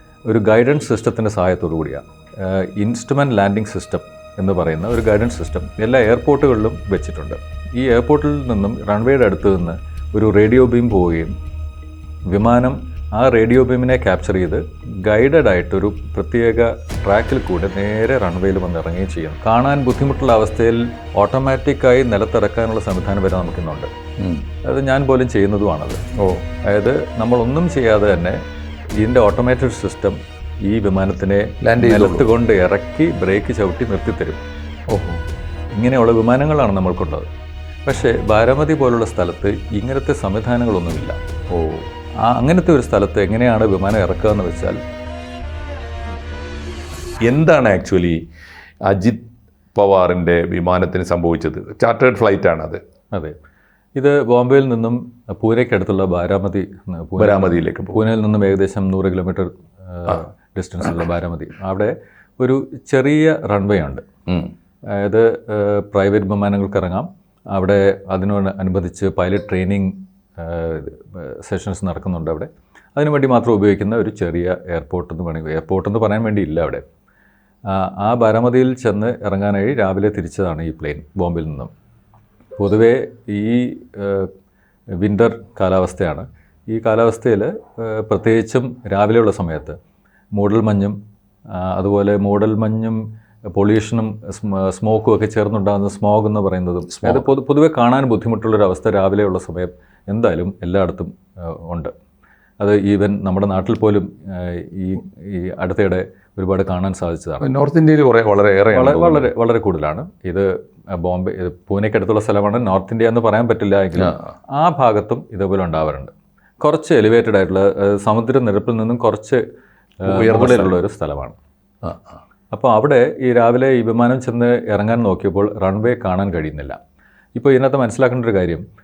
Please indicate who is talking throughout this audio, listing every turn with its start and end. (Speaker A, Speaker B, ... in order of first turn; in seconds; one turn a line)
Speaker A: 0.3-11.3
Speaker A: 12.3-23.9
Speaker B: 24.2-24.4
Speaker A: 24.6-26.0
Speaker B: 26.2-26.4
Speaker A: 26.6-28.4
Speaker A: 29.0-34.4
Speaker B: 31.6-32.3
Speaker B: 34.9-35.2
Speaker A: 35.7-37.3
Speaker A: 37.9-41.2
Speaker B: 41.5-41.9
Speaker A: 42.2-44.8
Speaker B: 47.2-48.2
Speaker B: 48.9-52.8
Speaker A: 54.0-64.0
Speaker B: 57.2-58.0
Speaker B: 64.3-64.5
Speaker A: 64.9-76.8
Speaker A: 77.7-81.7
Speaker A: 82.6-84.3
Speaker A: 85.0-89.8
Speaker A: 90.3-91.0
Speaker A: 91.5-93.0
Speaker A: 93.5-101.9
Speaker A: 102.6-107.5
Speaker B: 107.4-109.3
Speaker A: 108.7-119.4
Speaker B: 114.0-114.2
Speaker A: 120.0-121.4
Speaker B: 120.0-120.7
Speaker B: 121.8-122.2
Speaker A: 122.5-126.8
Speaker A: 127.3-128.6